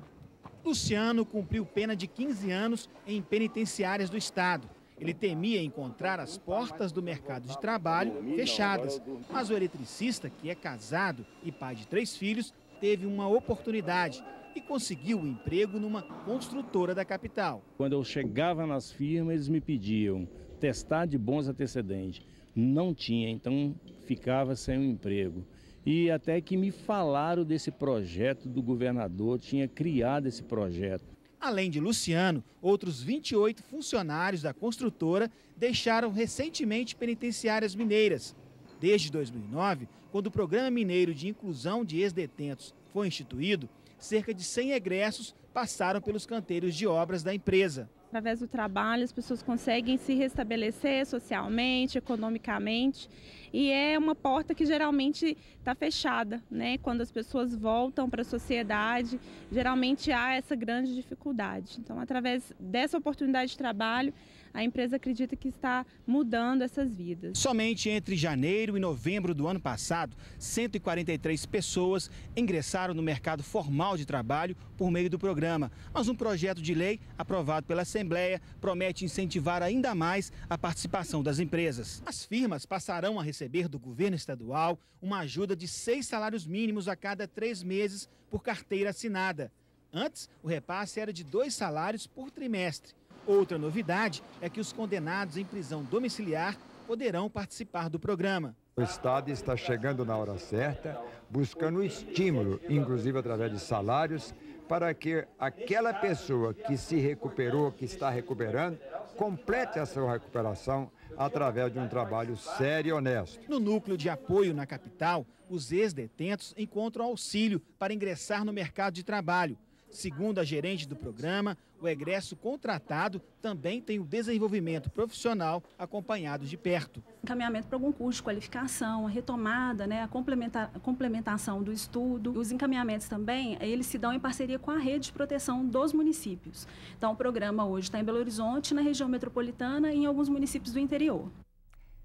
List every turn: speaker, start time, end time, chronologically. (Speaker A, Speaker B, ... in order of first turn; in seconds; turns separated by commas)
Speaker A: 0.6-17.6, Speaker B: 6.4-9.3, Speaker B: 17.8-31.1, Speaker A: 31.4-47.9, Speaker C: 48.1-67.4, Speaker A: 67.4-98.6, Speaker D: 98.8-113.4, Speaker A: 113.5-127.0, Speaker E: 127.2-141.3